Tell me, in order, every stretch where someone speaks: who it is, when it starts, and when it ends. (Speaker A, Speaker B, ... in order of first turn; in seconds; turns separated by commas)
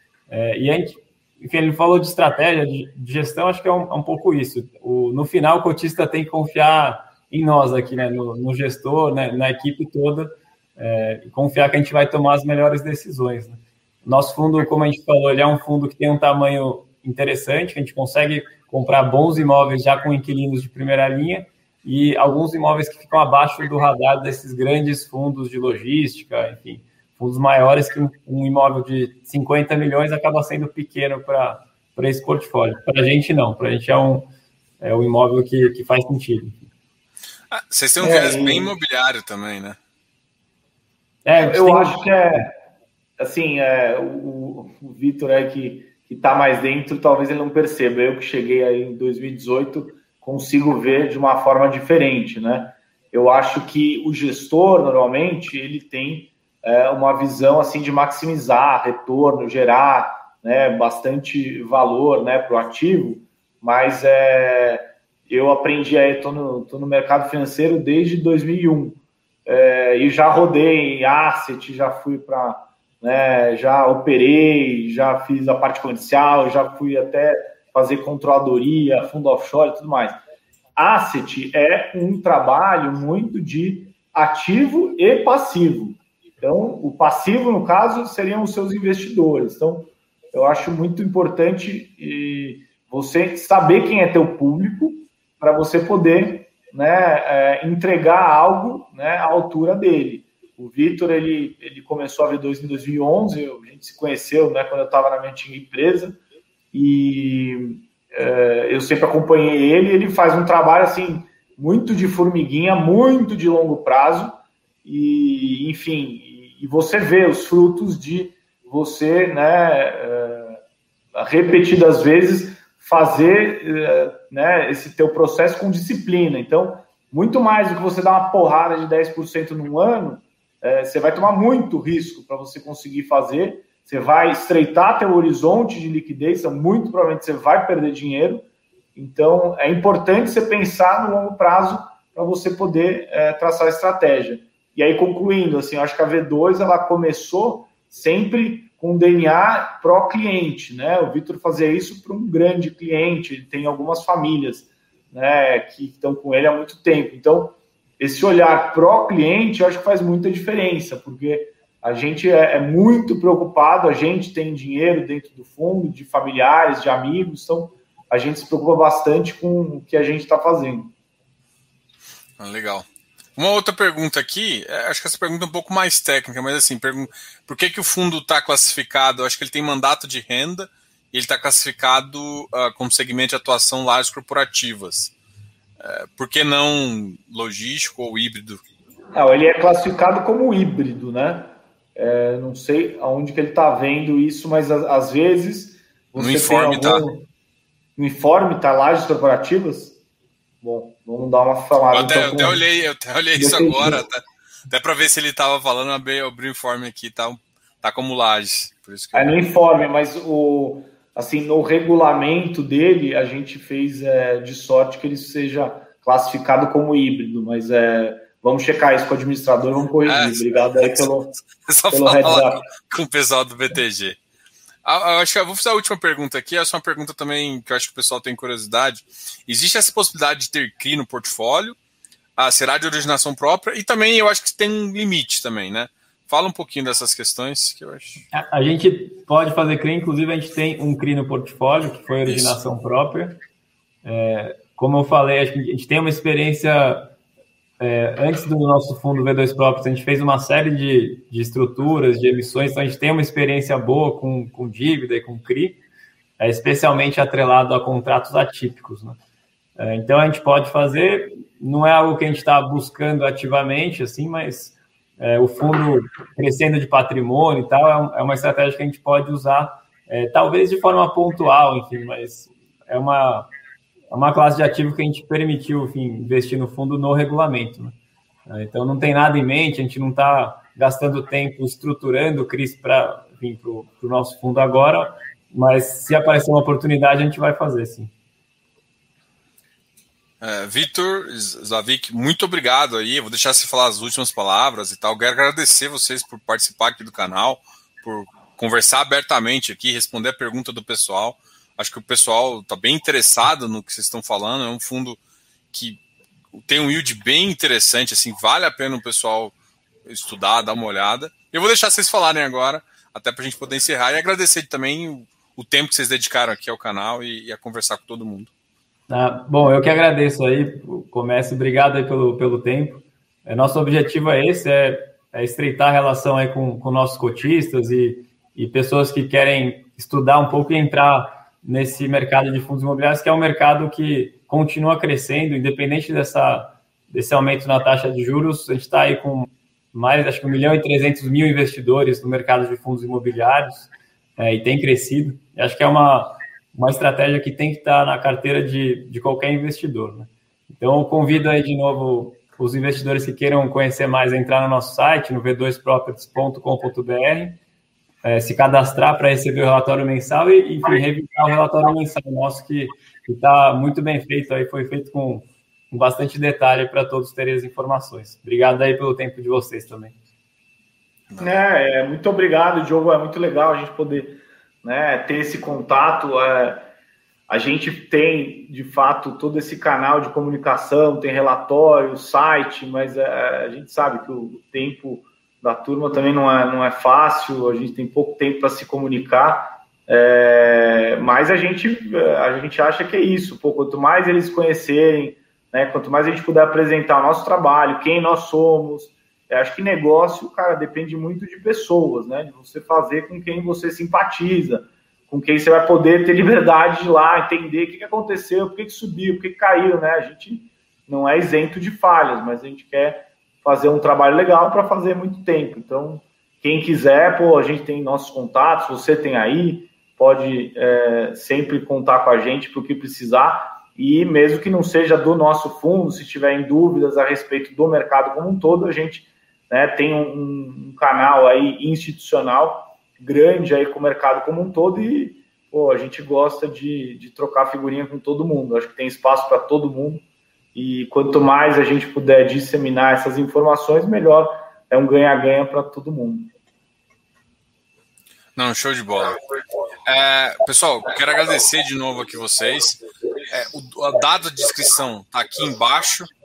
Speaker A: 0.3-34.3, Speaker A: 34.8-36.6, Speaker B: 37.5-39.8, Speaker C: 38.0-38.7, Speaker A: 41.2-42.0, Speaker C: 41.4-42.5, Speaker C: 43.2-80.2, Speaker C: 80.8-106.2, Speaker C: 106.7-120.6, Speaker C: 121.1-170.9, Speaker B: 172.4-185.1, Speaker B: 185.8-188.6, Speaker C: 189.1-197.3, Speaker B: 196.2-197.0, Speaker C: 197.9-200.0, Speaker C: 200.6-202.6, Speaker B: 201.9-209.4, Speaker C: 203.3-204.0, Speaker C: 209.1-221.3, Speaker B: 220.0-224.2, Speaker C: 221.9-222.6, Speaker B: 224.8-231.8, Speaker B: 232.4-238.2, Speaker A: 238.3-243.3, Speaker B: 242.2-242.6, Speaker A: 244.0-247.1, Speaker A: 247.8-255.8, Speaker A: 256.4-259.2, Speaker A: 259.8-273.5, Speaker A: 274.1-277.9, Speaker A: 278.5-288.1, Speaker B: 290.4-305.2, Speaker B: 305.7-306.0, Speaker B: 306.5-309.5, Speaker B: 310.1-318.5, Speaker A: 319.1-357.6, Speaker A: 358.2-370.1, Speaker B: 371.3-371.6, Speaker C: 371.4-376.9, Speaker C: 377.5-440.2, Speaker C: 440.7-446.5, Speaker B: 448.6-449.4, Speaker B: 450.1-456.3